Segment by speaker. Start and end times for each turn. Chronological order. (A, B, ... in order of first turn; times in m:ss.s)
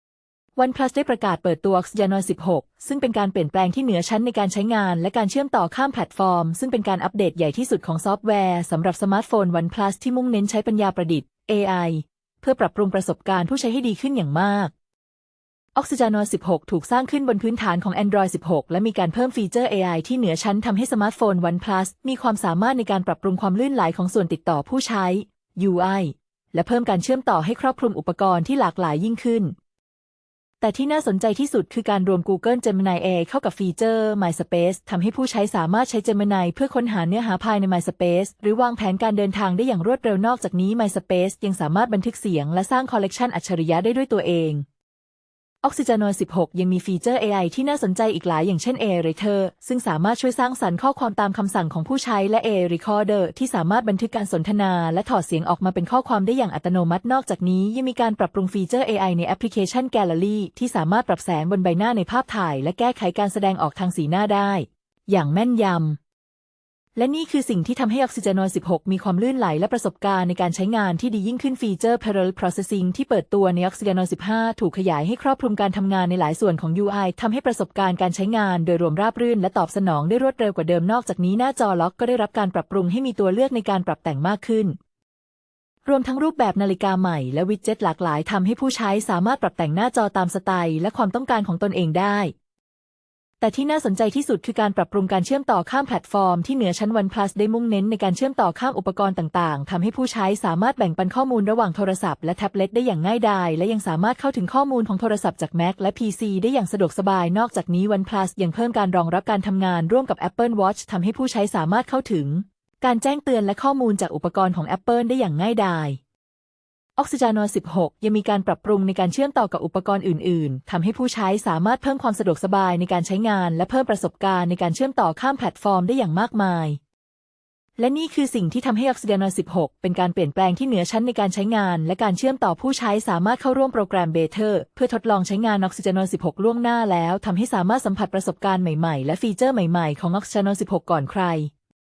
0:00.6-0:14.7 A
0:15.7-0:29.5 A
0:30.6-0:44.6 A
0:45.6-1:06.0 A
1:07.0-1:24.7 A
1:25.8-1:32.3 A
1:33.4-1:56.0 A
1:57.0-2:06.8 A
2:07.8-2:21.5 A